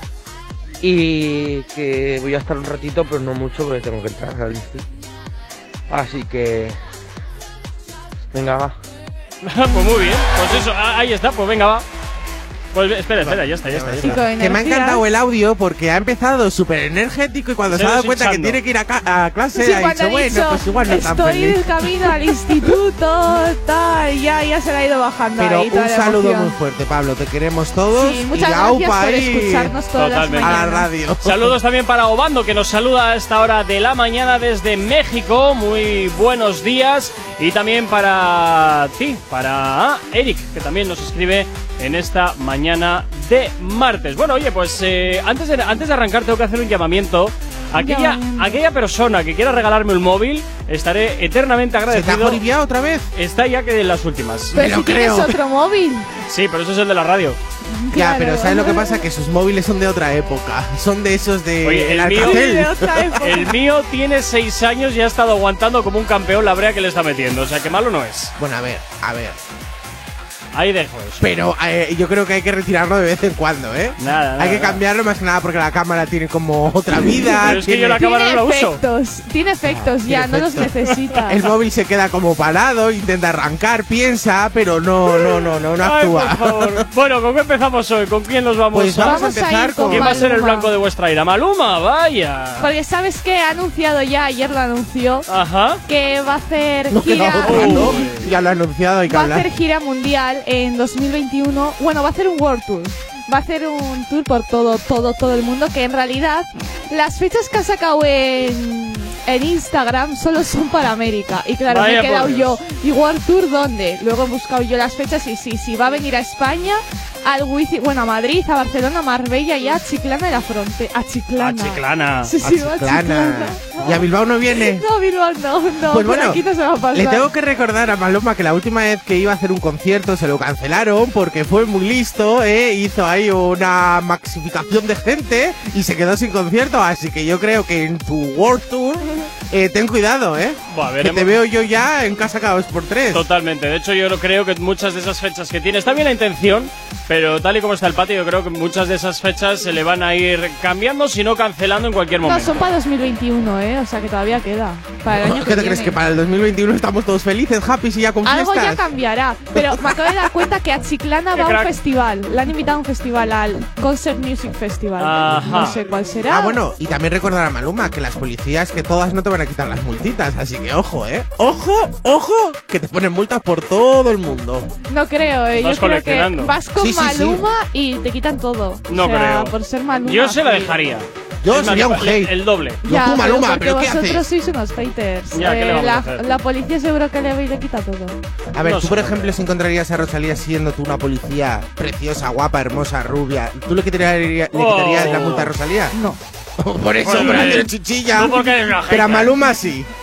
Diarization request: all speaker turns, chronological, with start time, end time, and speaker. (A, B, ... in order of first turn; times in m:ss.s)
0:00.8-0:04.8 A
0:05.9-0:06.8 A
0:08.3-0:08.7 A
0:09.4-0:11.8 B
0:12.7-0:14.2 B
0:13.2-0:22.1 C
0:14.0-0:15.0 D
0:17.7-0:18.6 B
0:19.5-0:26.5 D
0:25.4-0:29.7 C
0:28.0-0:30.9 D
0:30.0-0:30.6 B
0:30.4-0:31.5 C
0:31.2-0:52.4 B
0:47.8-0:48.6 D
0:51.9-0:53.1 C
0:53.1-0:54.6 B
0:54.5-0:55.4 C
0:54.5-0:56.1 D
0:56.3-0:57.4 B
0:57.7-0:59.0 D
0:57.9-1:03.2 C
1:01.6-1:02.4 B
1:02.1-1:03.5 D
1:03.2-1:08.3 B
1:08.4-1:09.4 C
1:10.5-1:11.3 B
1:11.2-1:18.0 C
1:14.0-1:14.8 B
1:17.1-1:21.4 D
1:17.4-1:18.8 B
1:19.7-1:20.7 C
1:21.3-1:26.8 C
1:25.8-1:29.2 B
1:28.7-1:30.2 C
1:29.0-1:30.7 D
1:29.9-1:32.7 B
1:32.6-1:35.3 D
1:35.3-1:35.8 B
1:35.9-1:38.0 D
1:36.9-1:39.4 C
1:37.4-1:38.2 B
1:39.1-2:07.2 D
1:51.7-1:52.6 B
2:01.4-2:02.3 B
2:02.4-2:04.8 C
2:05.9-2:06.4 C
2:06.9-2:23.2 C
2:20.7-2:21.3 B
2:23.1-2:32.7 B
2:32.2-2:35.9 D
2:35.1-2:38.8 C
2:38.2-2:46.6 D
2:39.5-2:40.3 C
2:41.3-2:41.7 B
2:45.0-2:45.7 B
2:46.3-2:54.7 C
2:54.9-3:00.8 D
2:55.6-2:56.5 B
2:56.8-2:57.4 C
2:58.9-2:59.5 B
3:00.0-3:02.8 B
3:01.4-3:02.3 C
3:02.8-3:04.2 C
3:02.8-3:08.1 D
3:05.3-3:06.2 B
3:08.5-3:15.9 C
3:08.6-3:09.3 B
3:14.5-3:15.5 B
3:15.9-3:16.2 D
3:16.6-3:19.9 C
3:17.0-3:19.3 B
3:17.1-3:17.6 D